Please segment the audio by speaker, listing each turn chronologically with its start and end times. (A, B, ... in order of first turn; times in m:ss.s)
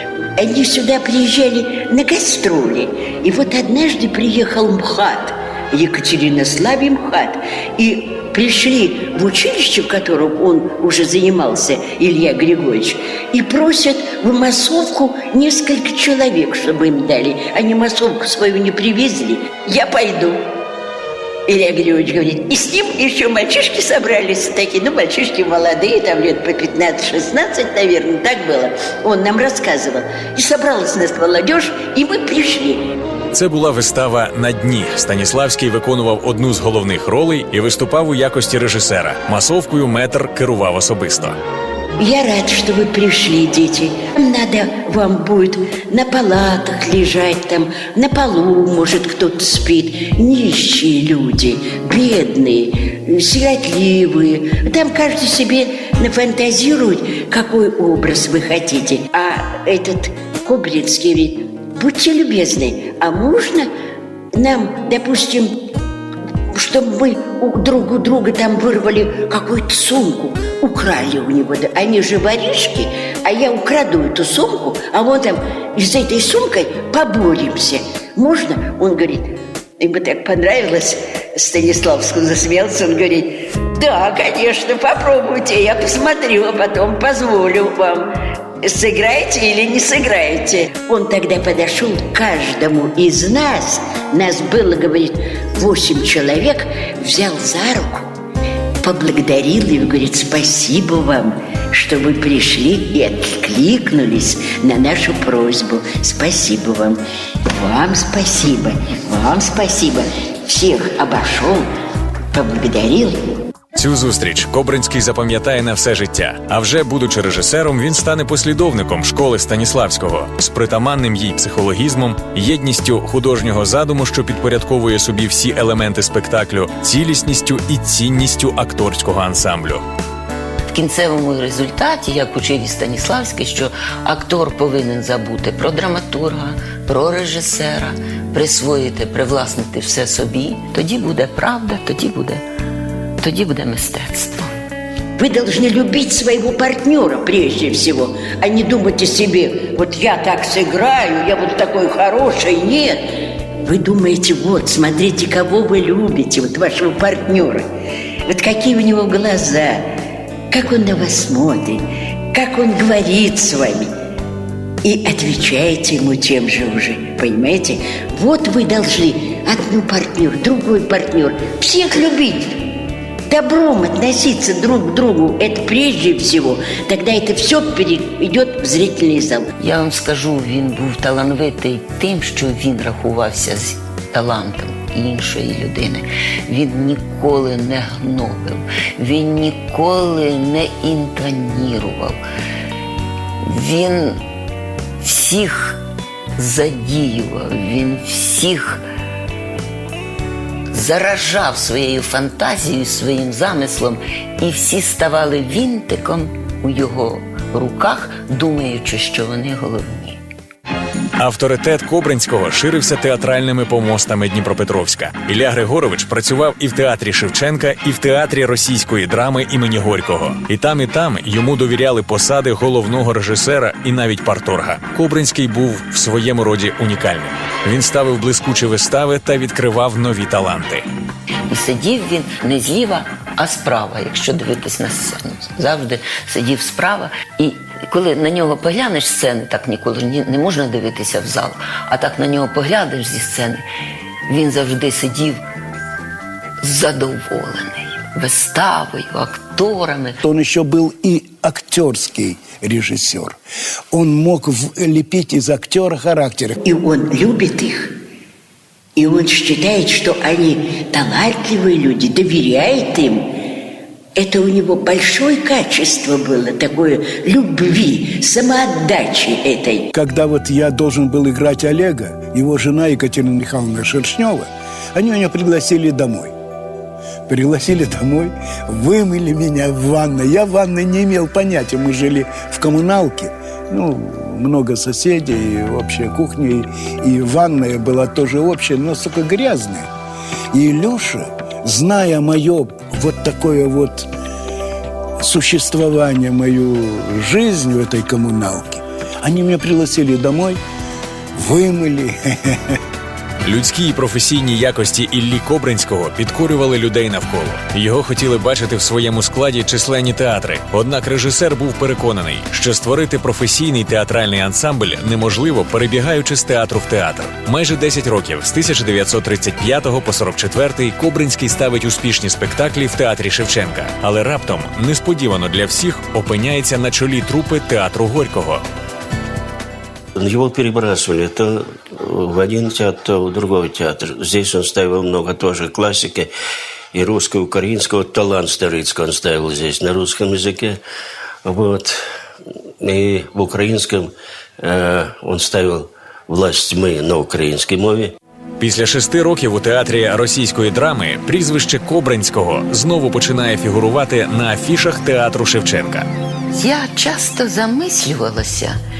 0:00.4-0:20.4 A
0:21.5-0:33.0 A
0:33.3-0:41.4 B
0:42.0-1:03.7 A
1:04.4-1:05.6 A
1:06.5-1:28.1 A
1:28.6-1:38.1 A
1:38.8-1:51.7 A
1:52.3-1:53.3 A
1:53.8-2:09.8 B
2:10.7-2:22.4 C
2:23.2-2:24.5 C
2:25.2-2:37.7 A
2:38.3-2:39.9 A
2:40.5-2:43.9 A
2:44.8-2:59.5 A
2:59.6-3:12.2 C
3:13.5-3:14.2 C
3:15.0-3:15.8 C
3:16.4-3:18.8 C
3:20.7-3:30.2 C
3:31.2-3:50.9 B
3:51.5-4:03.6 C
4:04.3-4:05.4 C
4:06.6-4:10.2 C
4:10.2-4:13.4 D
4:13.9-4:16.6 D
4:16.6-4:18.0 A
4:19.0-4:23.3 A
4:24.1-4:29.9 A
4:29.9-4:36.4 D
4:37.3-4:49.9 D
4:50.5-4:54.1 D
4:55.2-5:00.6 D
5:01.3-5:02.8 D
5:03.4-5:28.6 B
5:30.2-5:36.3 E
5:36.9-5:40.8 E
5:41.4-5:42.0 E
5:42.8-5:48.1 E
5:48.6-5:56.1 B
5:56.5-5:58.8 C